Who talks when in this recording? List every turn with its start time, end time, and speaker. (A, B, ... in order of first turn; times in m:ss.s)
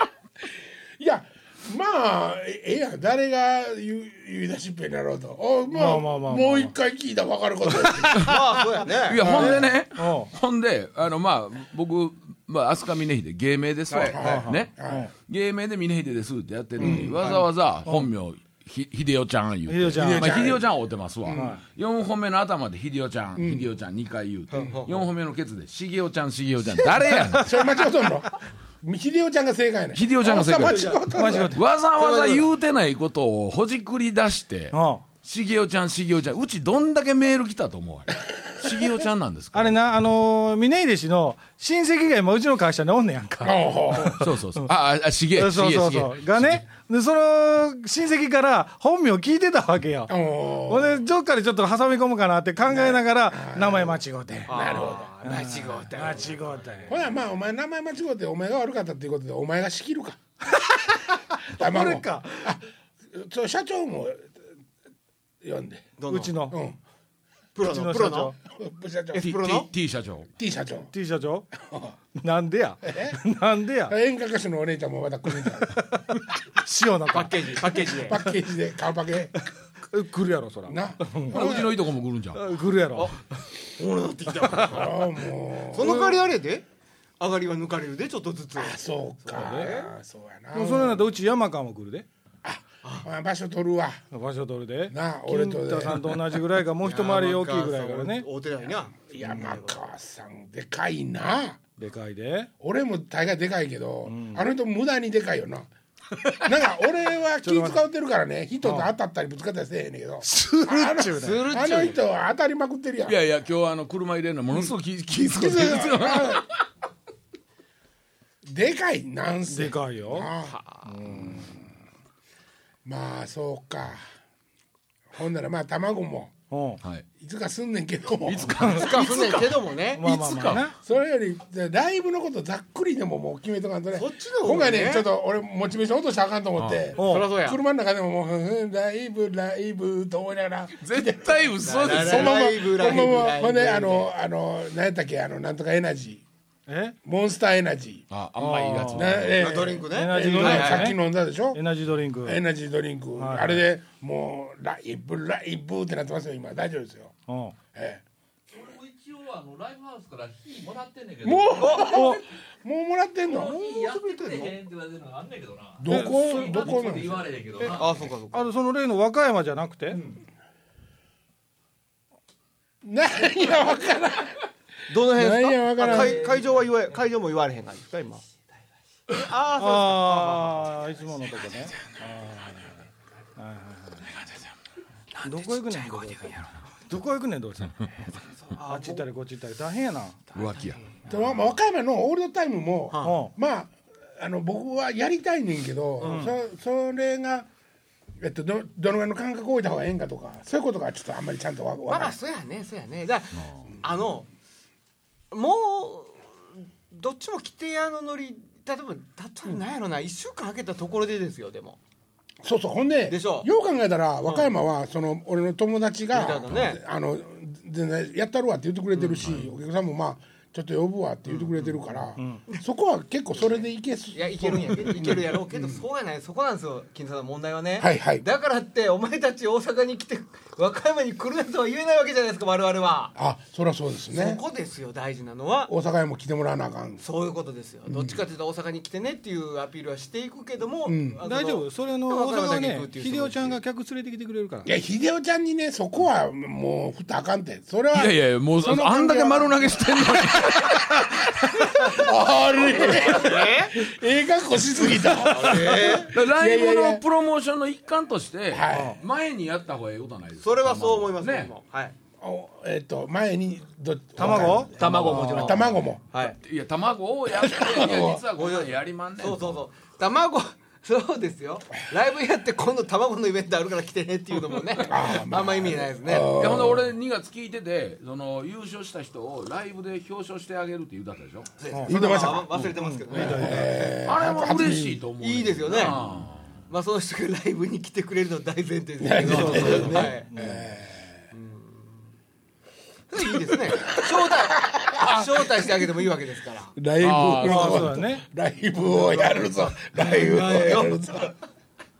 0:01.0-0:08.3 A
0:05.7-0:06.7 B
0:08.2-0:09.2 C
0:08.9-0:27.5 D
0:09.2-0:09.7 A
0:09.2-0:10.3 B
0:13.9-0:14.4 C
0:14.0-0:15.1 A
0:14.2-0:15.1 B
0:16.8-0:17.2 A
0:17.0-0:17.4 C
0:19.7-0:20.5 B
0:20.0-0:20.6 A
0:21.3-0:21.6 B
0:23.4-0:23.7 A
0:24.5-0:25.0 C
0:27.3-0:27.7 B
0:27.4-0:28.3 A
0:28.8-0:31.6 A
0:29.9-0:39.8 D
0:30.4-0:31.0 C
0:31.1-0:31.6 B
0:32.0-0:32.5 C
0:34.7-0:35.0 B
0:39.5-0:44.7 B
0:43.4-0:44.2 A
0:44.2-0:46.7 D
0:45.4-0:50.1 B
0:50.1-0:51.0 A
0:50.7-0:57.0 B
0:52.7-0:55.1 A
0:54.5-0:56.8 C
0:56.9-1:00.2 A
1:00.5-1:02.5 B
1:01.6-1:04.3 A
1:05.4-1:05.9 A
1:06.0-1:06.3 C
1:06.1-1:06.6 B
1:06.5-1:06.8 A
1:07.5-1:08.3 C
1:07.6-1:08.3 B
1:08.4-1:09.2 A
1:09.1-1:09.7 C
1:09.2-1:10.3 D
1:10.4-1:10.9 A
1:10.9-1:11.5 B
1:11.6-1:11.9 A
1:12.1-1:14.0 B
1:12.8-1:13.2 A
1:13.9-1:15.8 A
1:15.7-1:18.1 B
1:17.1-1:18.2 C
1:18.1-1:19.3 A
1:19.4-1:21.4 B
1:20.7-1:21.8 A
1:21.3-1:22.4 D
1:22.3-1:23.2 B
1:22.9-1:25.0 C
1:24.7-1:26.2 A
1:25.7-1:26.6 C
1:27.2-1:29.9 C
1:28.6-1:31.0 A
1:29.3-1:29.7 B
1:30.5-1:32.0 B
1:32.4-1:34.0 A
1:34.1-1:38.2 B
1:34.9-1:36.3 A
1:36.8-1:39.8 C
1:39.1-1:41.6 A
1:41.8-1:42.5 B
1:42.6-1:45.7 A
1:44.0-1:44.4 B
1:46.4-1:53.2 A
1:47.4-1:47.8 B
1:48.6-1:48.9 B
1:50.2-1:51.4 B
1:51.1-1:52.0 C
1:53.0-1:56.6 D
1:55.3-1:56.4 A
1:58.4-2:00.5 A
1:59.5-2:00.3 B
2:00.4-2:00.9 C
2:00.8-2:01.5 B
2:01.1-2:01.5 A
2:02.8-2:04.0 A
2:05.1-2:06.3 A
2:06.5-2:06.8 B
2:07.2-2:08.8 A
2:08.2-2:10.7 D
2:08.6-2:08.9 B
2:08.7-2:10.0 C
2:09.9-2:10.8 B
2:10.8-2:26.2 A
2:13.9-2:15.1 C
2:16.6-2:16.9 D
2:17.0-2:17.3 B
2:17.0-2:17.6 C
2:20.8-2:22.4 D
2:21.6-2:24.1 C
2:26.7-2:27.0 B
2:27.0-2:28.0 A
2:28.1-2:29.6 D
2:28.4-2:29.2 B
2:28.9-2:31.6 A
2:29.4-2:30.9 C
2:29.8-2:31.0 B
2:31.5-2:32.4 B
2:32.2-2:37.1 A
2:33.2-2:33.6 B
2:37.3-2:37.6 B
2:37.7-2:38.0 A
2:38.5-2:42.2 E
2:41.2-2:43.6 A
2:41.6-2:42.1 C
2:41.8-2:42.2 B
2:43.3-2:47.9 E
2:43.3-2:44.6 C
2:45.8-2:47.3 A
2:45.9-2:46.9 B
2:47.6-2:48.5 C
2:48.3-2:50.0 B
2:52.8-2:54.4 A
2:54.9-2:58.2 C
2:55.0-2:56.2 A
2:55.8-2:56.9 E
2:59.2-3:00.7 C
2:59.6-3:02.7 B
3:03.4-3:04.0 B
3:05.2-3:06.3 C
3:05.2-3:10.3 B
3:08.4-3:09.1 C
3:10.3-3:10.8 D
3:11.1-3:17.5 A
3:12.9-3:13.2 C
3:13.0-3:13.3 B
3:16.0-3:16.3 C
3:16.0-3:16.3 B
3:18.2-3:22.2 A
3:21.9-3:24.3 C
3:23.3-3:23.7 D
3:25.3-3:31.8 C
3:32.4-3:45.8 A
3:33.1-3:33.5 C
3:34.2-3:34.5 C
3:36.1-3:36.8 C
3:38.9-3:39.4 C
3:41.3-3:41.8 C
3:42.2-3:42.4 B
3:43.3-3:53.1 C
3:47.8-3:48.2 A
3:53.2-3:54.4 A
3:54.1-3:55.7 C
3:55.7-3:57.0 A
3:57.0-4:03.6 C
3:57.9-3:58.2 A
4:00.8-4:01.2 A
4:01.2-4:04.7 B
4:04.6-4:09.8 A
4:07.9-4:11.2 D
4:11.7-4:17.0 A
4:12.6-4:13.8 C
4:15.2-4:16.1 C
4:16.0-4:21.5 D
4:18.5-4:19.0 A
4:18.7-4:19.0 B
4:20.4-4:21.9 C
4:22.2-4:26.0 A
4:24.2-4:25.6 B
4:24.7-4:26.4 C
4:24.8-4:25.5 D
4:26.3-4:29.6 D
4:27.3-4:28.2 A
4:28.3-4:36.4 C
4:34.8-4:36.9 A
4:36.4-4:41.5 D
4:41.6-4:43.8 C
4:41.9-4:42.5 A
4:42.7-4:44.0 B
4:43.1-4:45.0 A
4:44.0-4:46.6 D
4:45.2-4:46.0 C
4:46.7-4:50.3 C
4:49.0-4:51.1 A
4:49.2-4:50.7 B
4:51.3-4:52.0 C
4:53.1-4:56.7 C
4:53.8-4:55.8 A
4:56.8-5:01.3 A
4:57.0-4:58.0 D
4:57.4-4:58.2 B
4:58.8-5:01.1 C